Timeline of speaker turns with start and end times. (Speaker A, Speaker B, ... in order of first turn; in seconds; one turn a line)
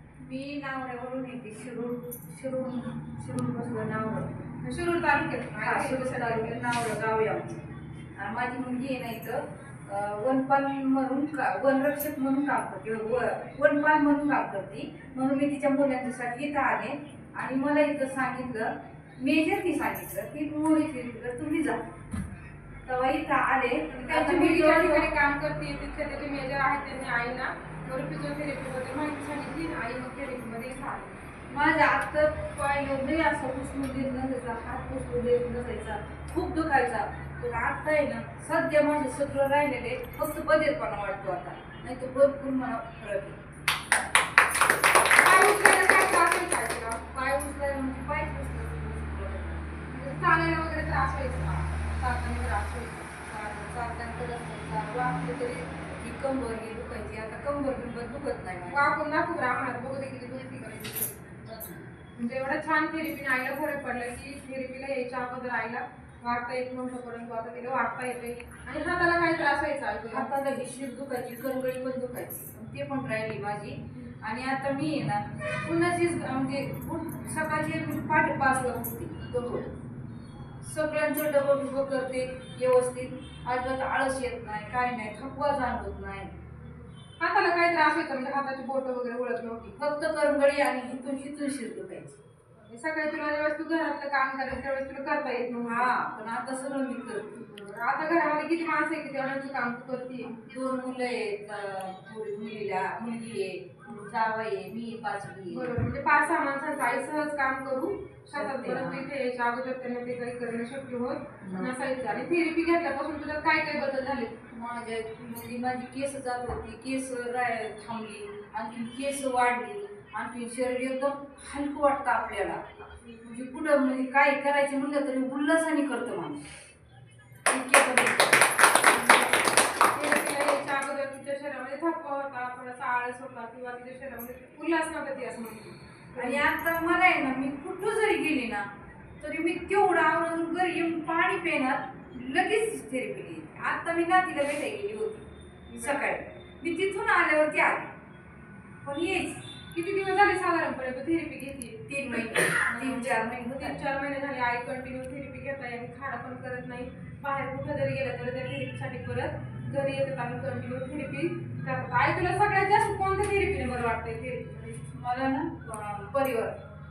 Speaker A: 0.2-4.3
Speaker B: 4.6-6.7
Speaker A: 5.6-21.9
Speaker A: 22.9-25.1
Speaker B: 23.9-31.1
Speaker A: 31.5-43.4
Speaker B: 45.1-47.0
Speaker A: 47.1-49.8
Speaker B: 49.9-53.2
Speaker A: 53.3-58.8
Speaker B: 58.6-70.3
Speaker A: 70.1-79.7
Speaker A: 80.6-86.3
Speaker B: 87.2-89.8
Speaker A: 89.7-92.2
Speaker B: 92.5-95.9
Speaker A: 95.6-97.5
Speaker B: 97.4-100.3
Speaker A: 100.3-105.7
Speaker B: 105.5-114.4
Speaker A: 108.3-109.0
Speaker A: 111.4-111.7
Speaker A: 114.5-126.5
Speaker B: 123.0-123.4
Speaker A: 127.5-128.4
Speaker B: 128.9-129.3
Speaker B: 129.9-136.4
Speaker A: 136.2-138.7
Speaker A: 139.2-147.9
Speaker B: 145.7-146.0
Speaker A: 148.8-149.4
Speaker B: 149.7-164.8
Speaker A: 151.9-153.9
Speaker A: 164.9-166.6